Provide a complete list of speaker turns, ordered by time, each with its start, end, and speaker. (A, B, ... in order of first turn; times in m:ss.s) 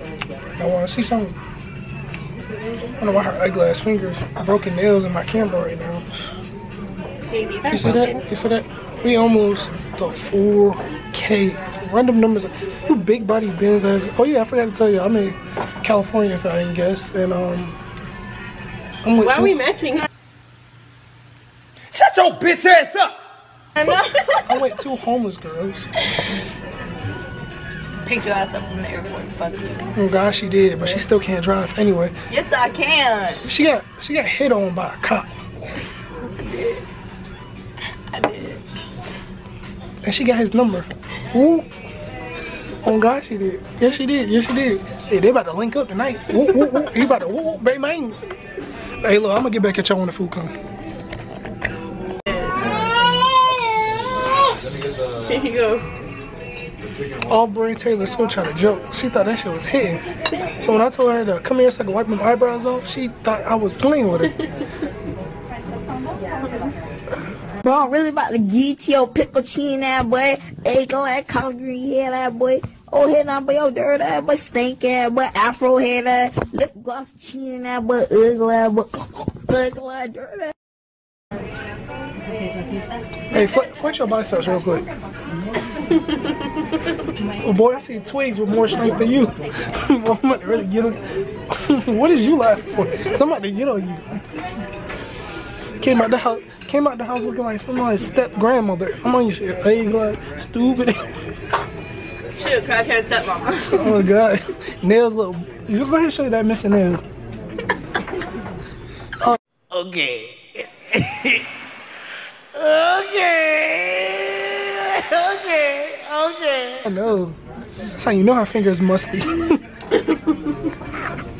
0:00.6-0:01.4 A
0:03.0-0:06.1 A
0:07.3-0:08.2 B
0:07.7-0:17.8 A
0:19.0-0:19.6 A
0:19.2-0:20.1 B
0:21.9-0:23.1 C
0:24.4-0:25.9 A
0:28.0-0:29.9 D
0:29.9-0:32.1 A
0:32.3-0:33.4 D
0:33.4-0:35.3 A
0:36.2-0:36.8 D
0:38.1-0:38.6 D
0:40.0-0:41.7 A
0:42.8-0:48.2 A
0:49.0-0:50.5 A
0:55.3-0:55.9 B
0:57.2-1:00.0 A
1:00.6-1:04.3 A
1:07.6-1:20.5 E
1:23.3-1:24.8 A
1:27.4-1:34.0 A
1:35.8-1:41.1 A
1:42.4-1:44.0 D
1:43.7-1:47.0 A
1:49.7-1:51.0 C
1:52.6-1:53.8 C
1:54.8-1:56.7 C
1:56.8-1:57.4 A
1:57.9-1:59.6 A
2:00.0-2:00.3 B